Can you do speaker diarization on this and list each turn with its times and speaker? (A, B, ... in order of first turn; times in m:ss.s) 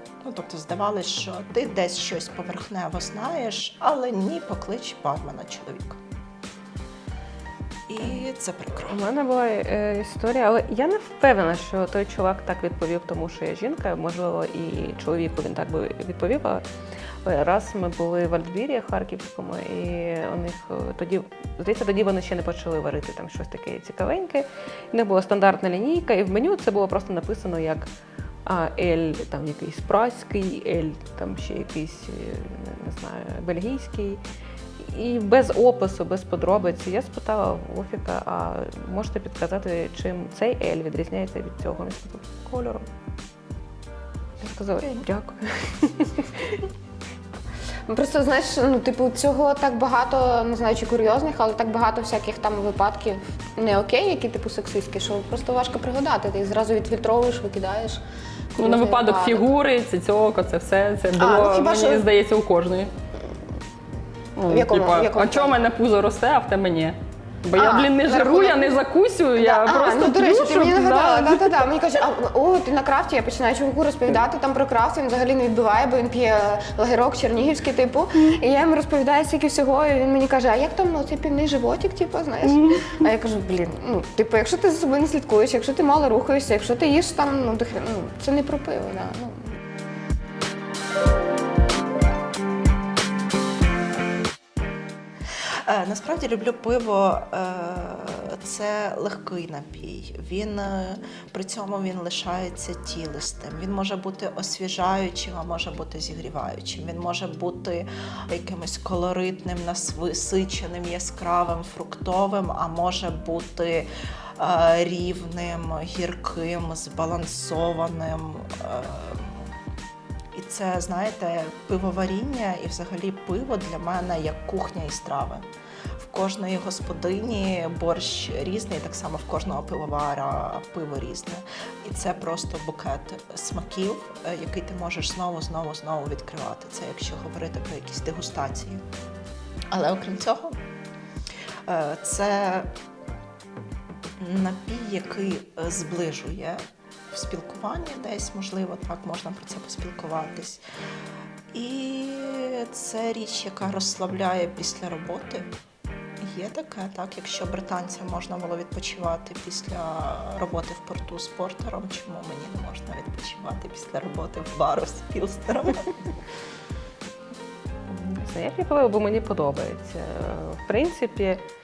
0:00.2-0:06.0 A
0:07.9-0:09.0 A
0:08.9-0:16.6 B
0:17.2-0:27.9 B
0:28.4-0:34.2 B
0:34.8-0:42.8 B
0:44.4-0:46.1 B
0:47.9-0:58.0 C
0:58.6-0:59.4 C
0:58.6-1:02.9 D
1:01.2-1:02.0 C
1:04.4-1:11.6 D
1:04.5-1:05.6 C
1:07.6-1:08.7 C
1:09.4-1:29.6 C
1:22.4-1:22.8 D
1:35.7-1:59.5 A
2:00.4-2:05.4 A
2:06.0-2:18.8 A
2:19.7-2:20.6 A
2:21.7-2:22.7 A
2:24.2-2:30.6 A
2:31.5-2:35.5 A
2:36.2-2:45.9 A
2:47.9-2:51.4 B